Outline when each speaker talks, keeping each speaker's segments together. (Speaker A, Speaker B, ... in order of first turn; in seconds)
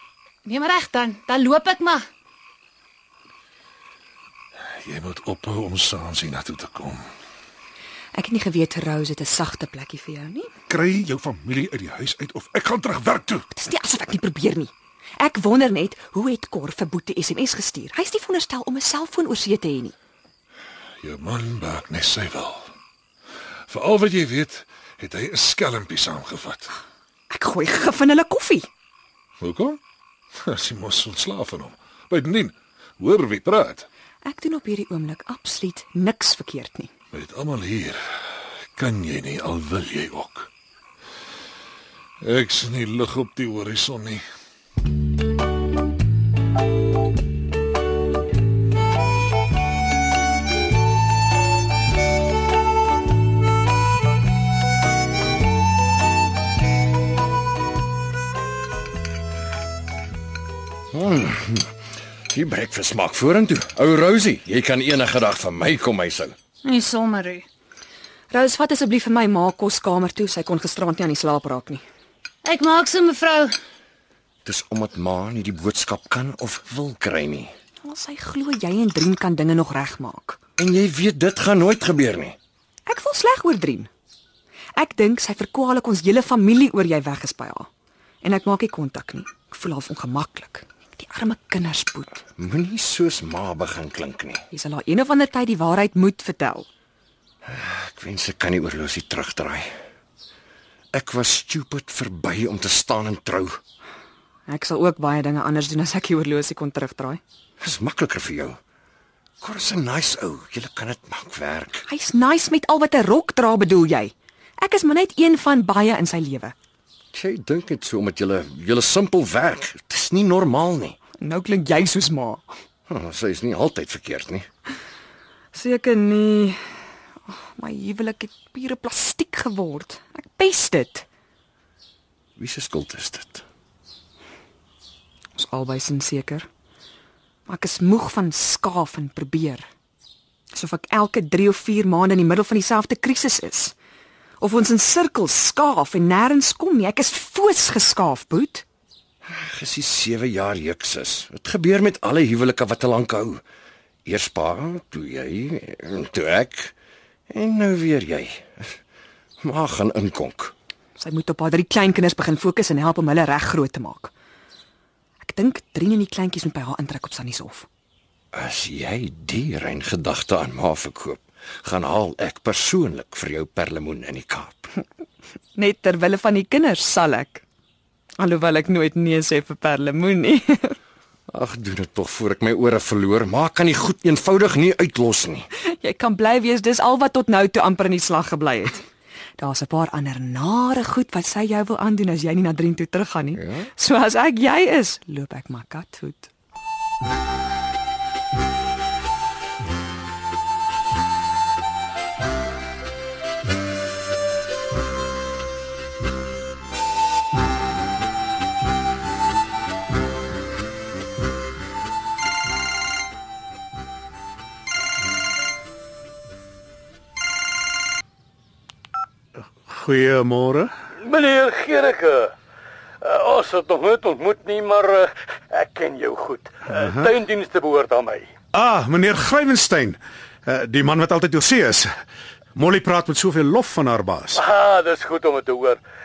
Speaker A: 0.4-2.0, 66.6-67.5, 72.4-73.5
Speaker B: 4.8-7.0, 10.7-13.5, 21.0-22.7, 23.7-26.7, 29.4-29.8, 30.4-33.9, 37.1-38.0, 38.8-40.5, 42.2-44.2
Speaker C: 8.1-10.5, 13.5-19.9, 27.3-28.7, 34.2-36.9, 68.3-71.8, 77.8-80.4, 82.9-83.9, 84.8-87.7, 88.2-92.3, 94.5-96.7, 104.5-107.2, 111.9-116.5, 121.2-122.5, 125.5-126.6, 127.3-131.0, 135.3-136.5, 137.4-139.7, 140.5-143.7, 144.4-148.6, 161.0-164.1, 165.2-167.7, 175.6-177.4, 178.2-180.8, 185.7-188.8, 189.4-196.3
Speaker D: 60.9-61.7, 62.3-66.3, 74.4-77.5, 80.6-82.3, 92.4-94.4, 97.4-99.7, 100.9-103.6, 107.6-108.6, 109.4-111.8, 117.1-121.0, 122.9-124.5, 132.4-133.4, 149.2-153.4, 154.0-156.7, 157.3-158.8, 159.4-160.5, 168.3-174.7, 181.3-185.5, 193.3-193.7
Speaker E: 219.6-220.7, 226.8-227.1, 228.5-231.9, 232.5-234.4
Speaker F: 221.0-222.3, 223.0-228.3, 234.3-235.8